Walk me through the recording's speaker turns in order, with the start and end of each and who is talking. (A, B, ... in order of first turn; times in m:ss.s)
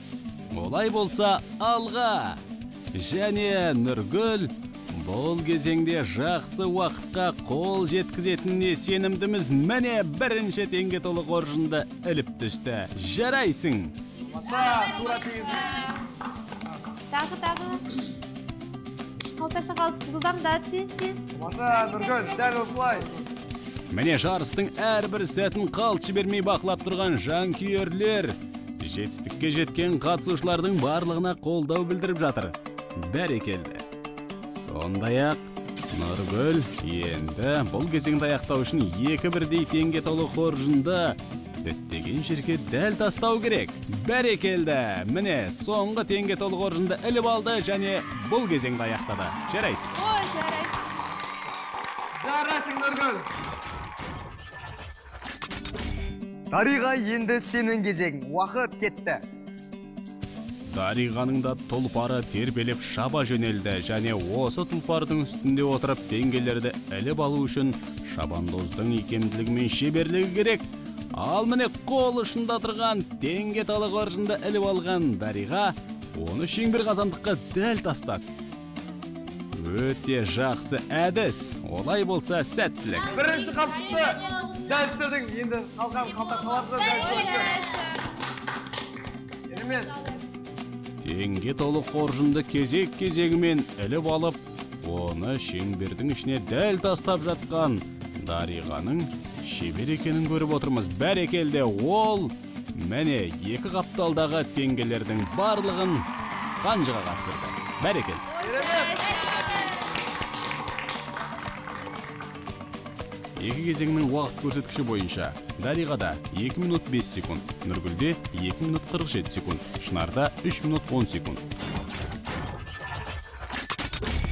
0:00.5-0:02.4 A
0:02.9-0:14.0 A
0:14.3-0:15.8 B
0:14.6-0:15.1 C
0:17.1-0:17.8 C
0:19.2-0:21.2 C
0:21.4-0:23.2 B
0:21.8-0:22.3 C
0:23.9-0:33.8 A
0:34.4-0:49.9 A
0:49.9-0:50.8 C
0:52.2-0:53.3 B
0:56.5-0:59.2 D
1:00.7-1:18.3 A
1:19.5-1:23.1 A
1:23.0-1:24.9 C
1:23.1-1:27.6 B
1:26.2-1:28.0 C
1:29.5-1:29.9 B
1:31.0-1:46.1 A
1:46.6-1:48.2 A
1:48.3-1:49.7 C
1:48.4-1:49.7 B
1:53.4-2:01.4 A